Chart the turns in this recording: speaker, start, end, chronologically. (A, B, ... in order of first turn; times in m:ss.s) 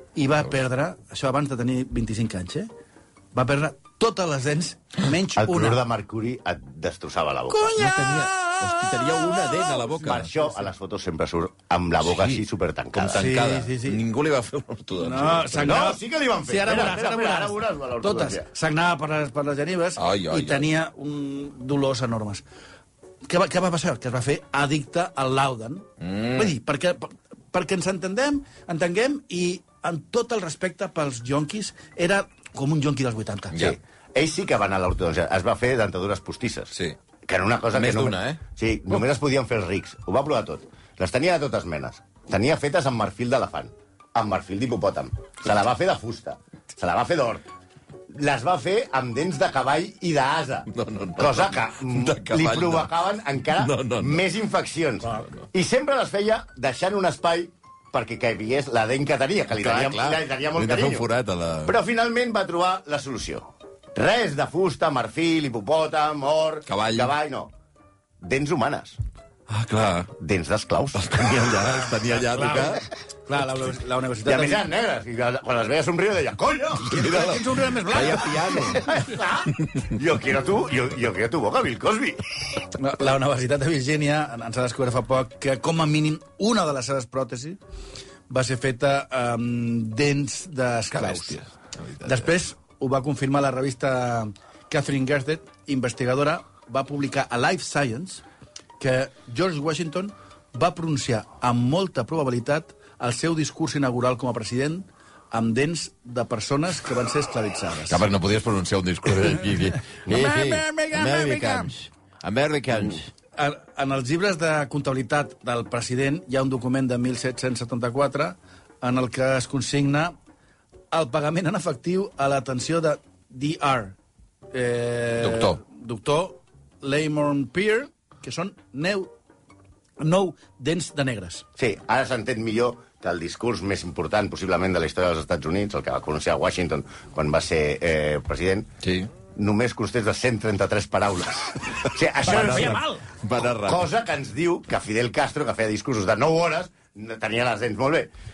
0:00.2-0:02.7 A
0:03.4-0:05.8 A
0:05.4-0:07.8 B
0:07.5-0:08.6 A
0:07.8-0:10.3 C
0:10.0-0:13.3 B
0:12.1-0:12.4 C
0:12.9-0:15.8 C
0:13.2-0:14.0 A
0:15.0-0:22.4 A
0:15.6-0:18.5 B
0:20.0-0:20.7 C
0:23.3-0:33.6 A
0:26.0-0:26.5 C
0:33.5-0:36.7 B
0:37.3-0:47.4 B
0:37.7-0:38.4 C
0:48.1-1:01.1 B
0:50.7-0:52.9 C
0:53.6-0:54.2 C
0:59.6-1:01.7 C
1:01.7-1:07.5 B
1:06.7-1:07.1 C
1:08.2-1:09.0 B
1:09.5-1:10.1 C
1:10.2-1:11.6 B
1:11.0-1:12.8 C
1:12.0-1:14.6 A
1:14.2-1:17.0 B
1:16.9-1:18.9 A
1:16.9-1:18.8 C
1:18.6-1:22.2 B
1:22.8-1:27.6 A
1:28.3-1:31.4 A
1:31.0-1:32.2 C
1:32.0-1:38.2 A
1:38.8-1:48.0 A
1:47.9-1:53.1 C
1:50.1-1:51.7 A
1:53.4-2:00.2 A
2:00.9-2:04.0 A
2:04.5-2:09.1 A
2:05.2-2:05.6 C
2:10.0-2:11.4 A
2:11.6-2:18.7 B
2:18.8-2:19.1 C
2:19.4-2:22.8 B
2:22.2-2:23.0 A
2:22.3-2:23.9 C
2:23.4-2:28.1 B